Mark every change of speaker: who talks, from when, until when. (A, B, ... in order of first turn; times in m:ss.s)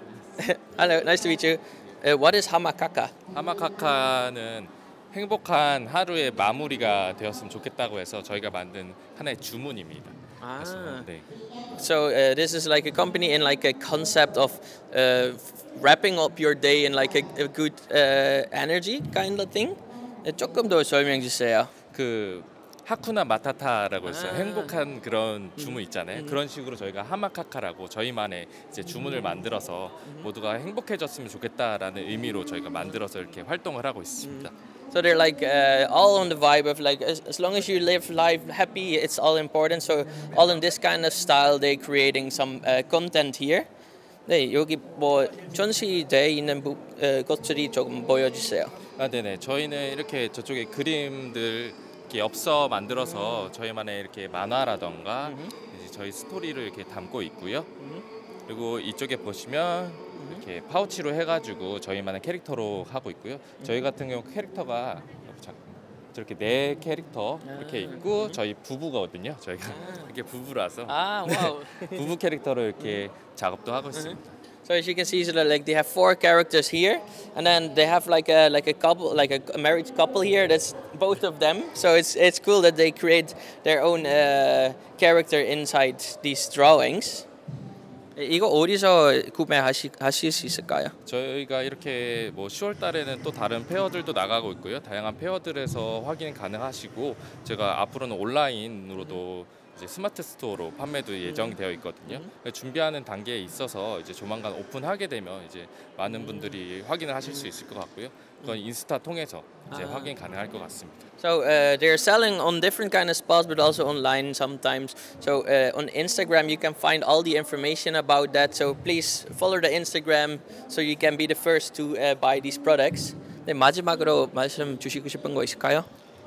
0:00.4-0:03.1 A
0:03.3-0:11.2 B
0:10.4-0:11.1 A
0:11.7-0:21.7 A
0:21.9-0:34.5 B
0:24.0-0:24.8 A
0:25.6-0:26.4 A
0:34.2-0:43.7 A
0:44.3-0:48.7 A
0:49.0-0:57.7 B
0:55.2-0:55.5 A
0:57.8-0:58.0 A
0:58.5-1:14.3 B
1:00.2-1:00.4 A
1:07.4-1:08.4 A
1:09.7-1:10.1 A
1:10.9-1:12.1 A
1:13.9-1:27.3 A
1:28.2-1:30.9 A
1:31.0-1:51.1 B
1:41.2-1:42.3 A
1:46.1-1:46.6 A
1:49.7-1:50.1 A
1:51.2-2:05.9 A